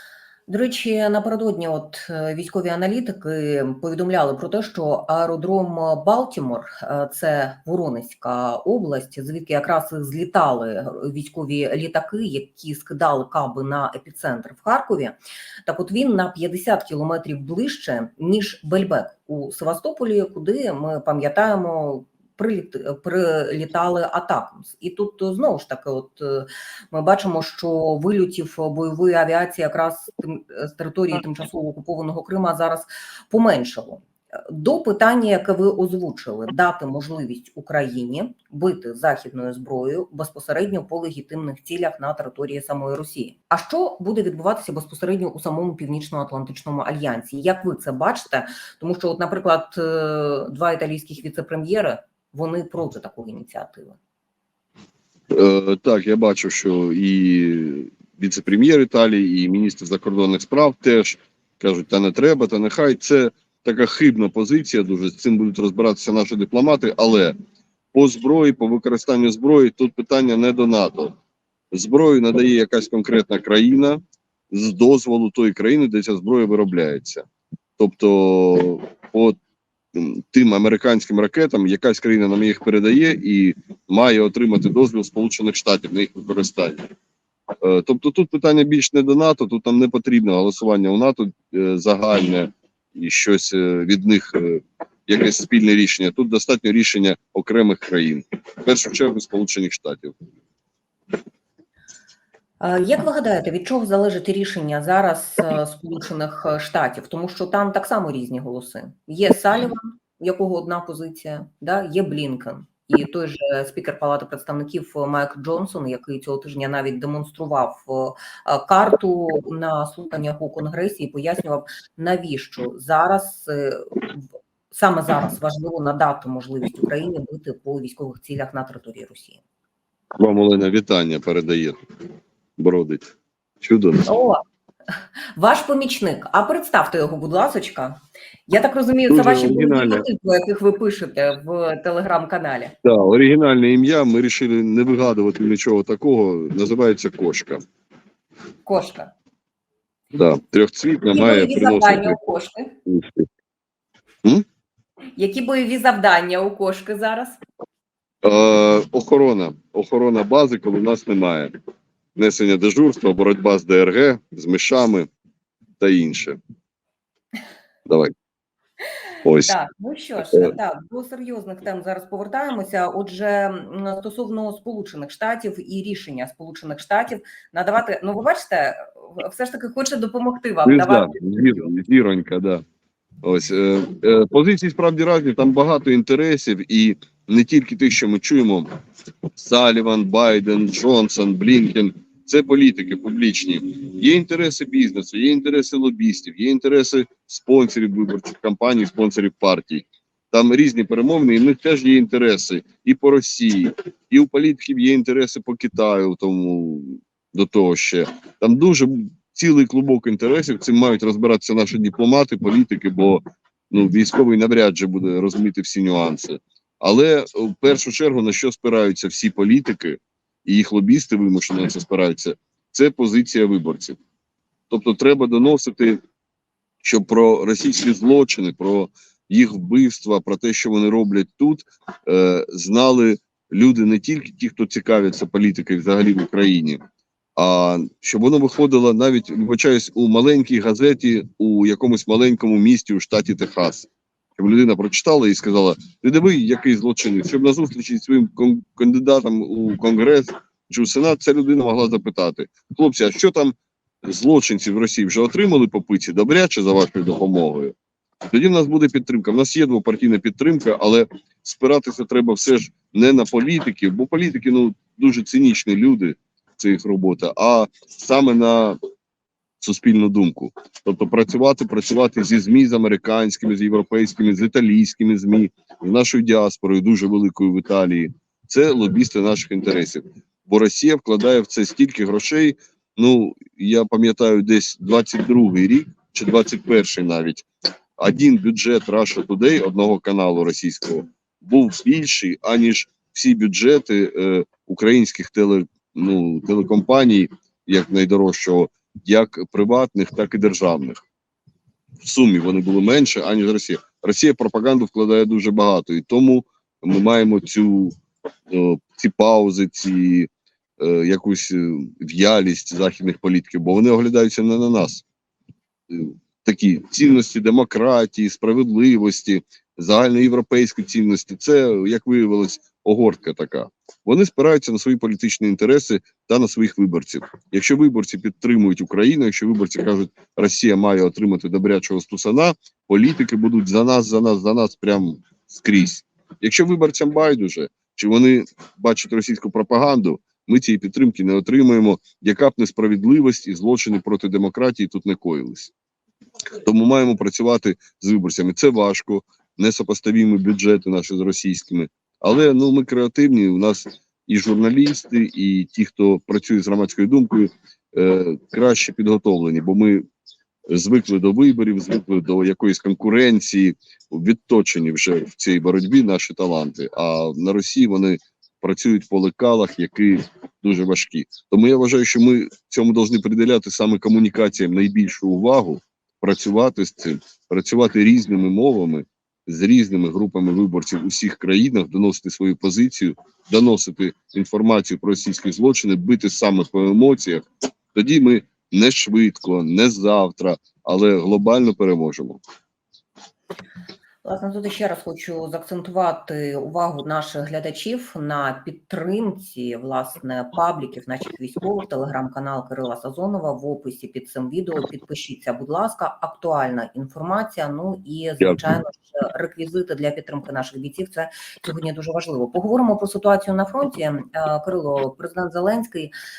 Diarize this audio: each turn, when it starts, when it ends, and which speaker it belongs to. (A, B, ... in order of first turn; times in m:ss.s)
0:00.5-0:54.0 A
0:55.3-1:07.3 B
1:07.9-1:11.1 B
1:11.7-1:14.0 B
1:14.5-1:17.2 B
1:17.8-1:19.4 B
1:19.9-1:26.8 B
1:27.6-1:40.1 B
1:42.6-2:09.4 A
2:10.2-2:11.8 B
2:12.6-2:13.1 B
2:13.6-2:14.0 B
2:14.0-2:14.4 A
2:15.4-2:22.7 A
2:19.1-2:20.0 B
2:22.8-2:27.6 B
2:28.6-2:29.1 A
2:30.1-2:32.2 B
2:31.1-2:32.7 A
2:32.8-2:33.3 B
2:35.2-2:37.4 A
2:38.2-2:41.5 B
2:42.2-2:45.1 B
2:45.8-2:46.4 B
2:47.8-2:48.1 B
2:49.2-2:49.6 B
2:49.4-3:01.7 A
3:00.6-3:02.6 B
3:03.2-3:08.7 B
3:09.4-3:44.0 B
3:44.7-3:46.0 B
3:46.8-3:56.8 B
3:57.4-4:17.7 B
4:18.2-4:28.8 B
4:29.6-4:47.5 B
4:48.0-5:01.0 B
5:02.0-5:08.0 B
5:08.5-5:15.0 B
5:15.9-5:45.7 B
5:46.6-6:00.0 B
6:00.7-6:32.4 B
6:34.2-6:56.1 A